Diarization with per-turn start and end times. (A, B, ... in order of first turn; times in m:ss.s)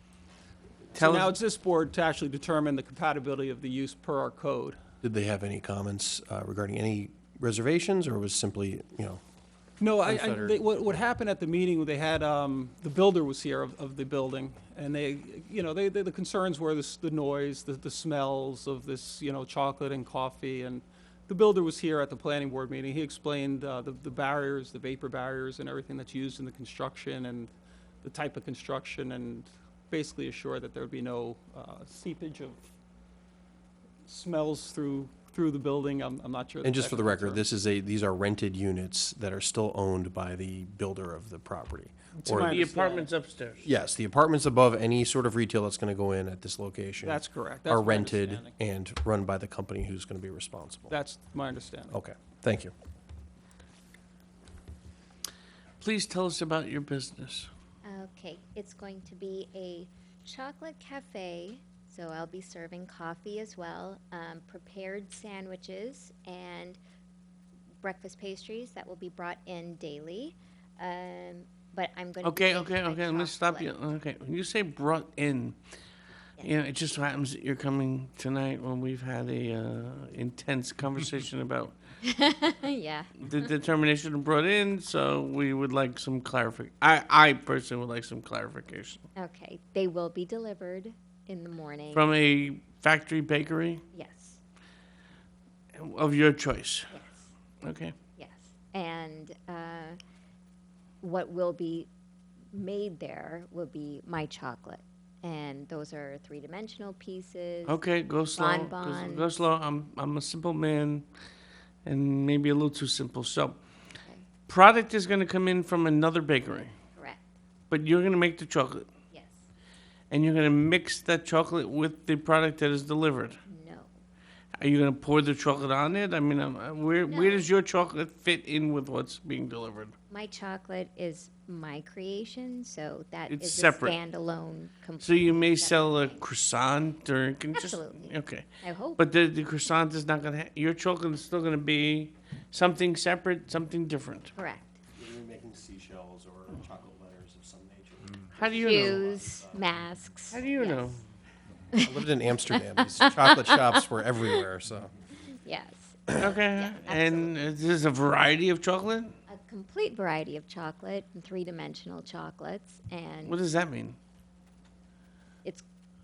0:00.9-0:04.8 A
0:01.0-0:01.3 B
0:05.0-0:09.2 C
0:09.8-0:27.5 A
0:10.0-0:10.6 C
0:28.0-0:32.6 A
0:34.0-0:37.4 A
0:36.6-0:42.6 C
0:42.2-0:43.1 A
0:42.3-0:43.7 B
0:43.6-0:50.9 C
0:47.0-0:48.5 A
0:50.9-0:51.9 A
0:51.9-0:52.7 C
0:55.8-0:57.5 B
0:57.8-1:06.8 D
1:07.8-1:13.7 D
1:12.2-1:15.5 B
1:16.4-1:21.7 B
1:22.0-1:23.2 D
1:23.2-1:29.0 B
1:29.2-1:32.1 D
1:31.9-1:33.8 B
1:33.9-1:34.4 D
1:35.8-1:36.9 B
1:36.9-1:37.3 D
1:37.6-1:37.9 B
1:38.2-1:40.0 D
1:41.0-1:41.9 D
1:42.5-1:47.8 D
1:47.6-1:51.0 B
1:48.4-1:49.5 D
1:51.8-1:53.6 B
1:54.5-1:56.7 B
1:56.9-1:57.2 D
1:57.7-1:58.8 B
1:59.1-1:59.4 D
2:00.1-2:03.4 B
2:03.4-2:03.9 D
2:04.6-2:09.9 B
2:07.0-2:07.5 D
2:10.1-2:16.2 D
2:13.3-2:14.0 B
2:15.0-2:24.3 B
2:17.5-2:19.1 D
2:24.4-2:24.8 D
2:24.9-2:29.7 C
2:28.3-2:29.0 B
2:28.6-2:31.0 D
2:30.3-2:31.0 B
2:31.8-2:34.4 D
2:31.8-2:34.9 C
2:35.4-2:37.3 D
2:36.2-2:39.1 B
2:39.3-2:43.4 D
2:43.2-2:44.0 B